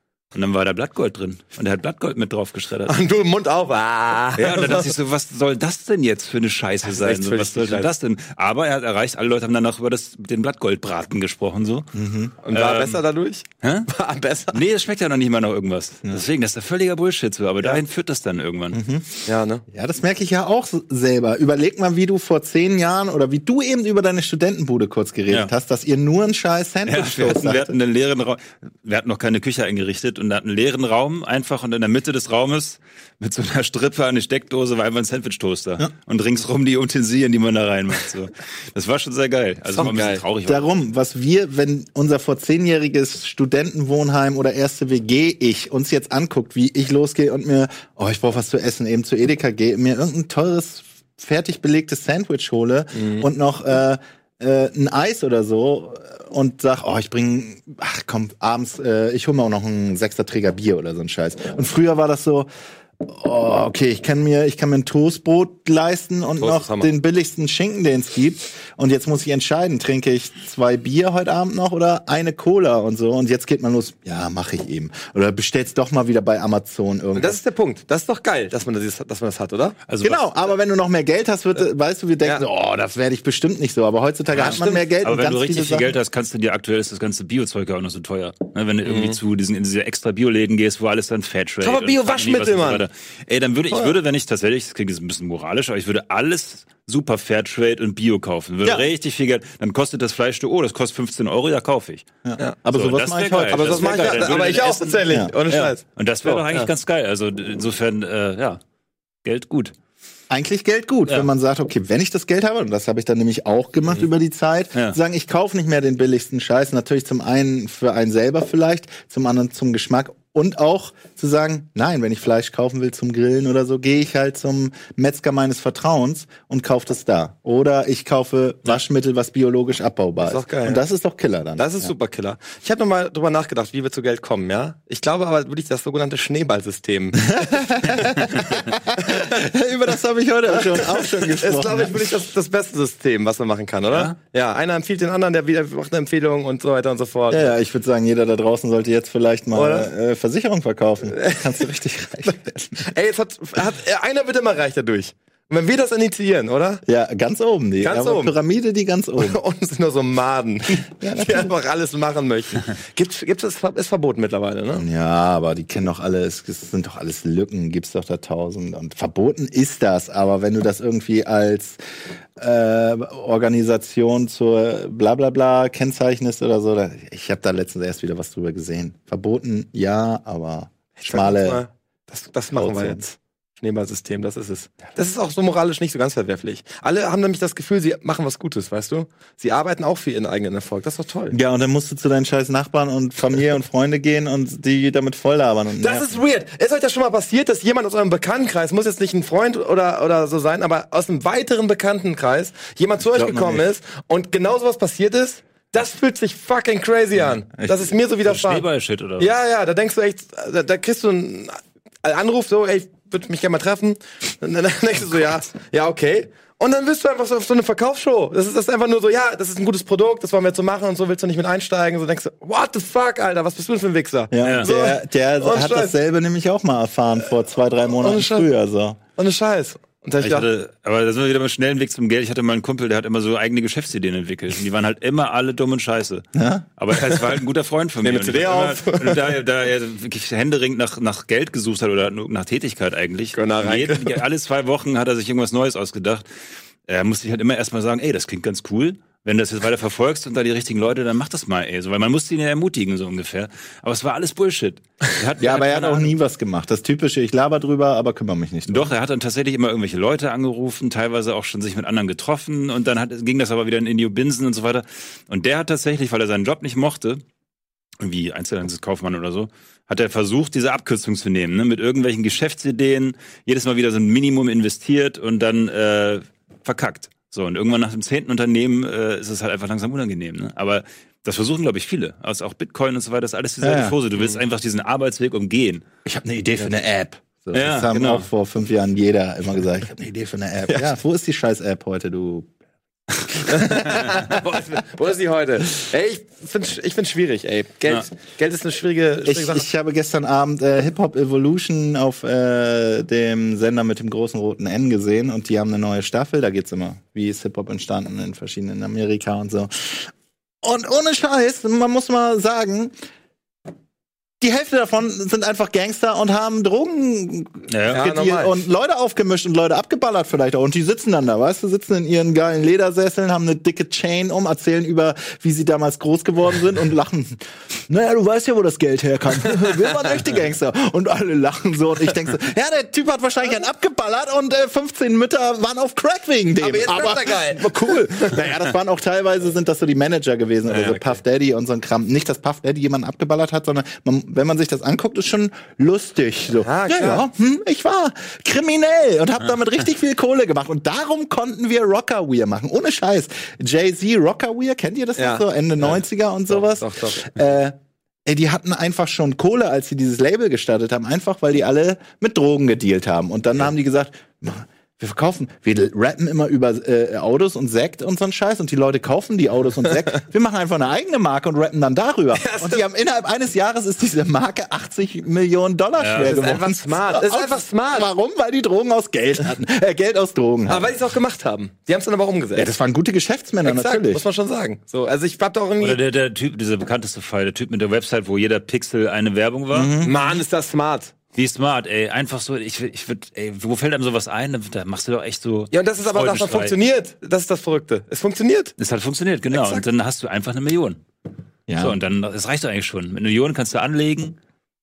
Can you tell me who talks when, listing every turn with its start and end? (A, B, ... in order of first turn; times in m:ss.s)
0:00.3-0:03.0 A
0:02.8-0:04.9 B
0:04.4-0:11.9 A
0:06.8-0:07.9 B
0:11.9-0:12.3 C
0:12.4-0:14.6 B
0:12.5-0:13.0 A
0:13.6-0:13.9 A
0:14.5-0:18.8 A
0:18.7-0:19.0 C
0:19.2-0:19.6 B
0:19.7-0:27.7 C
0:26.8-0:40.7 A
0:39.7-0:40.2 B
0:40.4-1:02.5 C
0:52.9-0:53.2 B
1:03.0-1:17.4 C
1:06.4-1:06.9 B
1:17.2-1:19.8 B
1:19.9-1:20.2 A
1:20.0-1:25.9 C
1:24.4-1:24.8 B
1:24.4-1:42.1 A
1:28.8-1:29.2 B
1:31.6-1:32.8 B
1:42.2-1:44.3 C
1:42.6-1:48.6 A
1:43.5-1:46.7 B
1:49.2-1:49.7 A
1:50.3-2:11.9 C
2:10.2-2:10.8 B
2:11.6-2:19.4 B
2:17.2-2:22.1 C
2:20.6-2:27.5 B
2:23.9-2:24.1 A
2:27.3-2:32.9 C
2:29.5-2:29.9 B
2:31.2-2:31.4 B
2:32.8-2:36.8 B
2:36.8-2:39.4 C
2:37.8-2:38.3 B
2:39.2-2:44.8 B
2:41.0-2:41.5 C
2:44.7-2:51.8 C
2:52.4-3:01.6 C
3:01.0-3:11.4 B
3:02.5-3:03.0 C
3:11.3-3:16.1 C
3:15.8-3:28.6 B
3:23.1-3:23.6 C
3:27.5-3:27.9 C
3:28.2-3:29.3 A
3:29.2-3:45.9 B
3:44.3-3:49.0 C
3:44.4-3:44.7 A
3:48.0-3:48.5 B
3:49.2-3:50.5 B
3:50.2-3:56.2 A
3:56.3-3:56.6 C
3:56.8-4:06.2 A
3:58.0-3:59.4 B
4:03.3-4:04.2 B
4:06.9-4:16.1 A
4:15.4-4:18.9 C
4:18.7-4:27.2 A
4:28.0-4:45.8 A
4:43.6-4:44.0 C
4:46.0-4:52.5 C
4:47.5-4:48.2 A
4:53.3-4:54.4 C
4:53.5-4:59.6 B
4:59.2-5:10.1 C
5:10.6-5:12.9 C
5:14.4-6:20.9 C
5:17.7-5:18.0 A
5:17.9-5:18.6 B
5:36.6-5:38.4 B
5:40.7-5:41.2 B
5:46.6-5:47.2 B
5:55.2-5:55.4 B
5:56.5-5:57.3 B
6:12.3-6:12.8 B
6:16.0-6:16.6 A
6:16.2-6:18.1 B
6:20.7-6:22.7 B
6:22.5-6:24.2 C
6:23.6-6:26.0 B
6:25.8-6:29.9 A
6:29.7-6:30.3 C
6:30.0-6:31.1 B
6:31.3-6:36.7 A
6:35.7-6:38.7 B
6:38.8-6:41.0 A
6:39.5-6:39.8 B
6:41.7-6:42.0 C
6:41.8-6:44.4 A